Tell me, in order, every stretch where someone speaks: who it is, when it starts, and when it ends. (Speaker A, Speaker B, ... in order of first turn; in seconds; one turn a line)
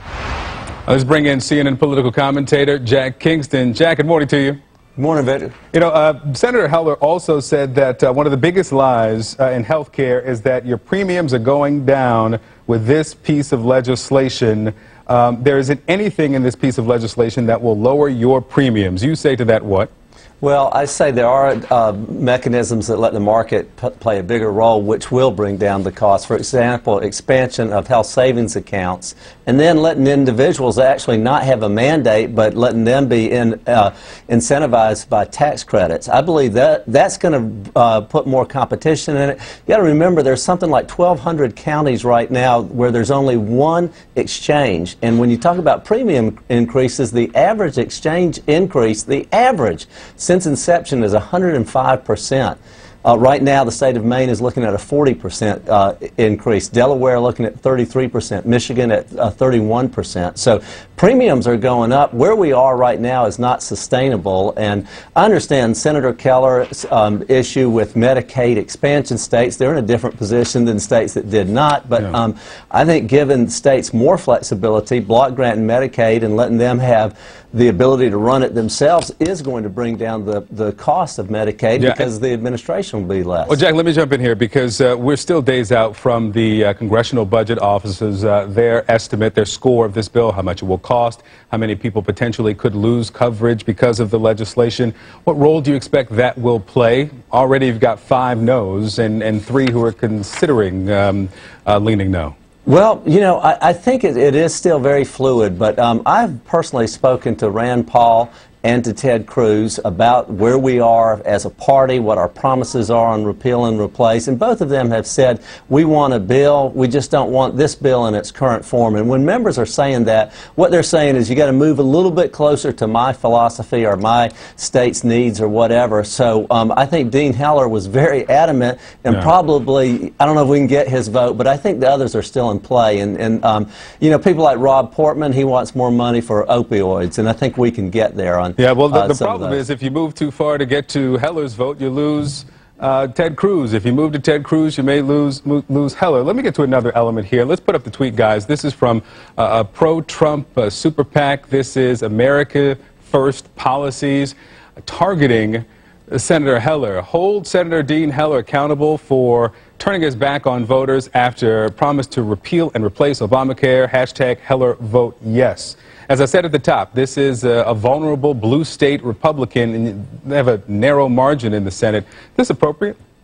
Speaker A: 0.9-4.6
Speaker B: 5.0-5.5
Speaker A: 5.7-19.9
Speaker B: 20.4-83.6
Speaker A: 81.8-82.1
Speaker A: 83.5-102.3
Speaker B: 102.7-139.6
Speaker A: 138.6-173.0